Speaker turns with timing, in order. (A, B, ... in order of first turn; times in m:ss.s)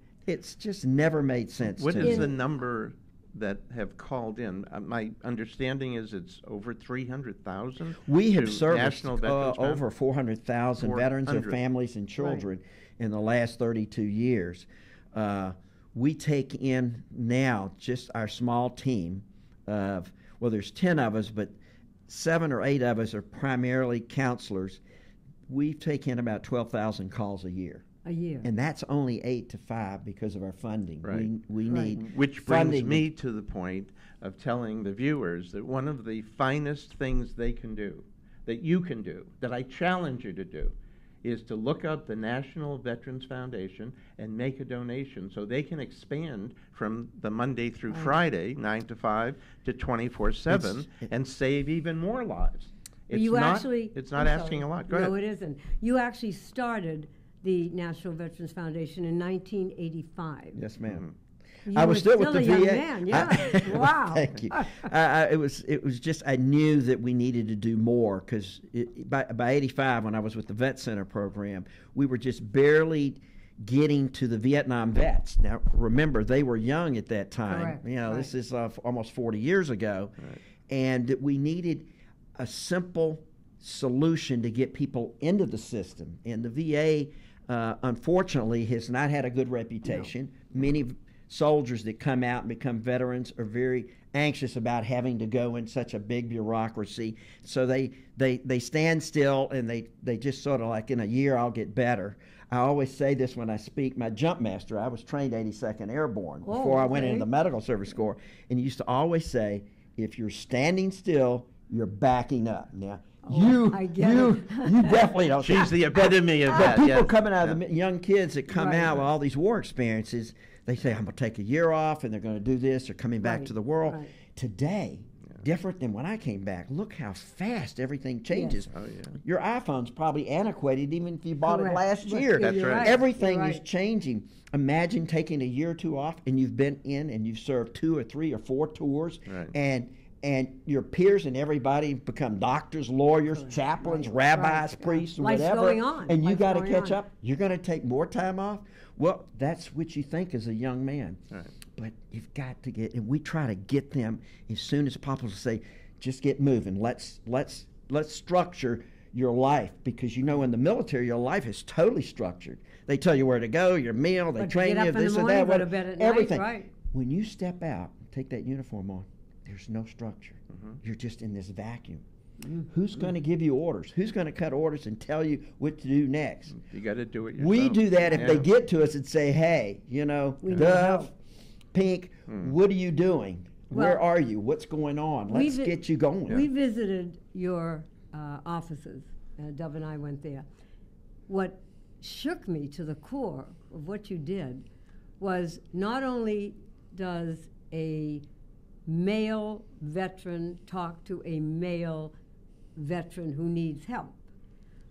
0:00.2-0:02.3 A
0:01.8-0:09.8 B
0:02.0-0:02.3 C
0:08.0-0:21.5 A
0:10.8-0:11.6 B
0:22.1-0:24.8 A
0:25.5-0:27.8 A
0:28.0-0:28.5 C
0:28.4-0:33.0 A
0:31.7-0:32.0 C
0:32.0-0:55.1 B
0:47.9-0:48.2 C
0:50.5-0:51.1 A
0:53.1-1:00.6 C
1:00.5-1:01.1 A
1:00.9-1:01.1 B
1:01.7-1:04.8 C
1:01.7-1:20.1 A
1:17.5-1:18.3 C
1:20.7-2:52.0 A
1:46.4-1:47.3 C
1:53.2-1:55.0 C
1:55.4-1:57.6 B
1:58.5-1:58.9 C
2:03.2-2:04.1 C
2:08.3-2:08.6 C
2:08.7-2:09.2 B
2:11.4-2:13.6 C
2:12.4-2:12.9 B
2:23.3-2:27.0 C
2:44.4-2:46.7 C
2:50.5-2:50.8 B
2:52.4-2:52.7 C
2:52.7-2:56.5 A
2:56.5-2:58.5 B
2:57.4-3:01.1 A
3:00.4-3:01.1 C
3:01.7-3:06.5 A
3:03.7-3:04.0 C
3:05.3-3:05.8 C
3:06.3-3:10.4 C
3:11.3-3:14.6 C
3:15.2-3:18.2 C
3:18.9-3:22.1 C
3:22.8-3:24.2 C